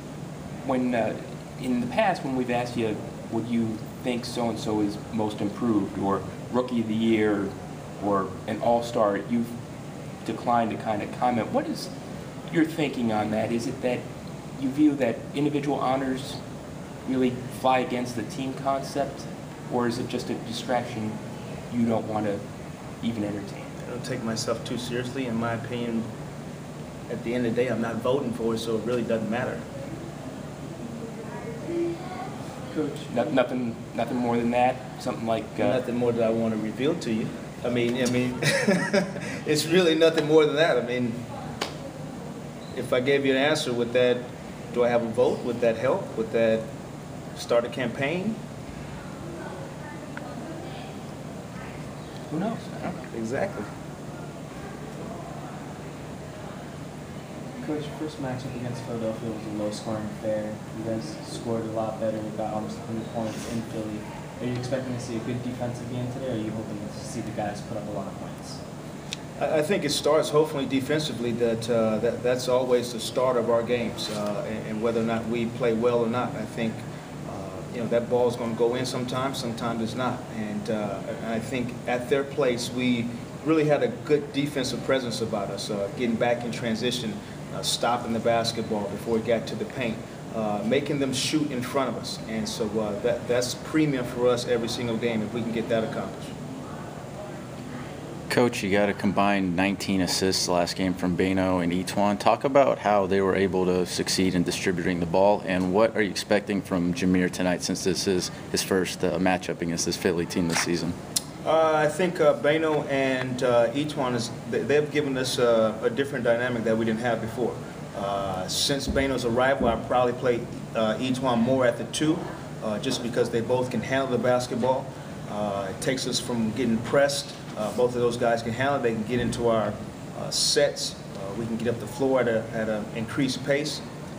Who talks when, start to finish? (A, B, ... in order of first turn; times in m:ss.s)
0:00.6-0:09.5 A
0:10.2-0:11.9 A
0:12.5-0:14.0 A
0:14.6-0:16.4 A
0:17.1-0:21.2 A
0:21.7-0:22.4 A
0:23.0-0:23.7 A
0:23.8-0:26.1 B
0:27.1-0:29.6 B
0:32.7-0:33.3 C
0:33.1-0:35.8 A
0:35.6-0:41.2 B
0:42.7-0:46.7 B
0:47.4-0:48.4 B
0:52.3-0:53.0 A
0:53.1-0:53.7 B
0:57.6-1:08.6 C
1:09.4-1:36.3 B
1:38.3-1:51.0 D
1:51.4-2:13.8 B